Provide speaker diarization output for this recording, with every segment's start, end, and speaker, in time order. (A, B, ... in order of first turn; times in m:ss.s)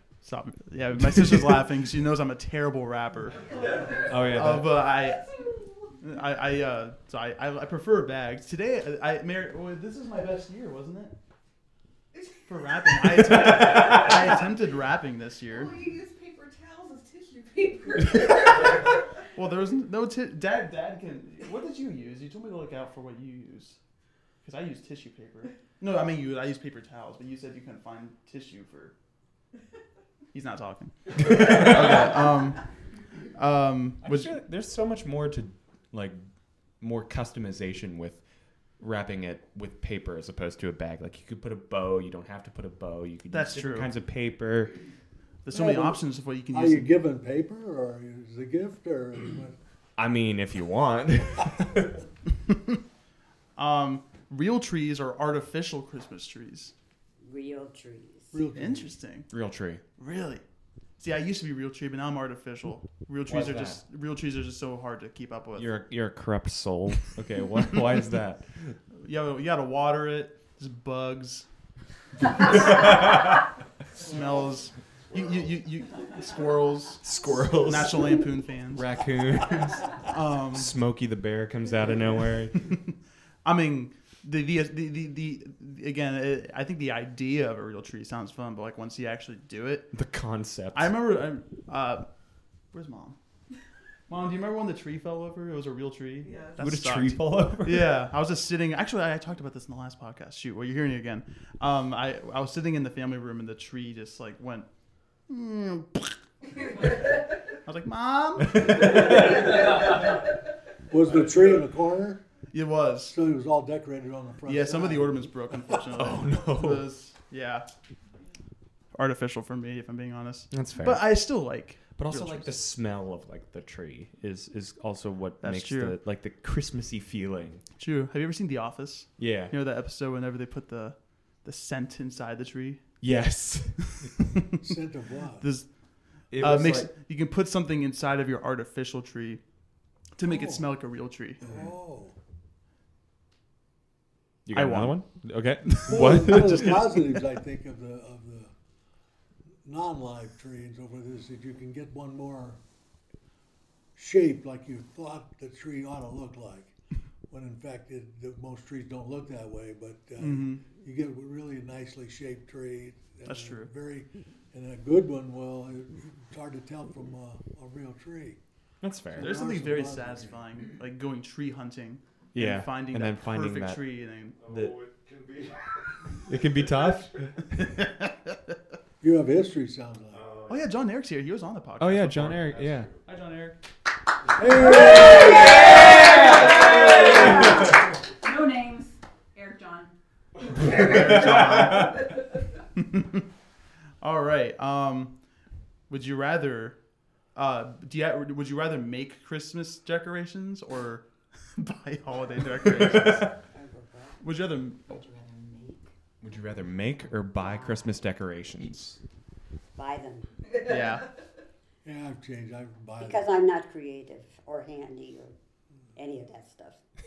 0:00.2-0:05.3 A
0:04.0-0:04.7 B
0:06.0-0:11.2 A
0:12.2-0:12.4 C
0:12.5-0:15.8 A
0:13.6-0:14.0 B
0:15.5-0:19.0 C
0:19.4-0:23.8 A
0:24.4-0:28.9 A
0:30.3-0:32.6 A
0:31.2-0:32.2 B
0:33.3-0:34.4 A
0:34.0-0:36.2 B
0:36.8-0:38.2 B
0:38.8-0:44.8 B
0:43.3-0:43.9 A
0:45.4-0:46.9 A
0:45.5-0:46.0 D
0:46.5-0:49.6 D
0:50.0-0:52.0 B
0:53.6-0:56.7 A
0:57.2-0:58.4 E
0:58.3-0:58.9 D
0:58.6-0:59.3 A
0:59.3-0:59.8 B
1:00.0-1:00.4 A
1:01.0-1:05.8 A
1:03.3-1:03.8 B
1:05.6-1:08.7 B
1:08.9-1:11.5 A
1:12.6-1:13.3 B
1:14.0-1:17.0 A
1:17.0-1:22.7 B
1:17.6-1:18.9 A
1:20.0-1:20.7 A
1:23.4-1:30.0 A
1:29.9-1:30.9 B
1:30.7-1:32.1 A
1:32.7-1:33.2 A
1:34.1-1:44.7 A
1:36.2-1:36.6 C
1:36.6-1:38.0 B
1:45.3-1:46.2 A
1:47.6-1:49.6 A
1:48.5-1:49.8 B
1:50.9-1:52.2 D
1:52.5-1:53.2 A
1:53.1-1:55.2 D
1:54.5-1:57.7 A
1:56.0-1:56.9 B
1:58.9-2:02.5 A
2:00.5-2:01.1 B
2:02.0-2:07.6 B
2:05.4-2:06.0 A
2:07.8-2:12.9 A
2:09.2-2:09.5 B
2:13.0-2:14.0 B
2:14.6-2:15.5 D
2:15.4-2:19.4 A
2:16.3-2:16.9 B
2:20.1-2:21.4 A
2:20.2-2:20.6 D
2:21.4-2:22.2 D
2:24.5-2:27.1 B
2:24.6-2:25.0 A
2:25.8-2:26.7 A
2:25.9-2:28.5 D
2:29.6-2:32.6 D
2:34.0-2:36.7 D
2:37.3-2:48.4 D
2:40.2-2:40.6 A
2:43.2-2:43.7 A
2:48.8-2:49.3 B
2:49.1-2:50.4 D
2:49.2-2:54.4 A
2:52.3-2:53.8 B
2:54.4-2:57.2 F
2:54.5-2:54.7 B
2:56.3-2:57.3 B
2:57.6-2:58.3 A
2:59.0-3:00.2 D
3:00.1-3:00.7 F
3:00.5-3:02.5 A
3:01.8-3:02.9 B
3:02.4-3:03.0 F
3:03.0-3:03.6 A
3:04.4-3:06.0 D
3:06.5-3:07.5 B
3:06.7-3:07.2 D
3:07.0-3:09.9 G
3:10.5-3:12.2 A
3:10.8-3:11.6 B
3:12.8-3:13.2 A
3:14.0-3:15.2 A
3:15.9-3:23.4 A
3:22.8-3:23.3 B
3:23.5-3:24.2 E
3:24.2-3:25.1 A
3:25.2-3:25.8 G
3:26.2-3:29.0 B
3:29.8-3:30.3 E
3:30.6-3:31.1 A
3:31.8-3:33.3 D
3:33.0-3:35.3 E
3:36.0-3:36.8 E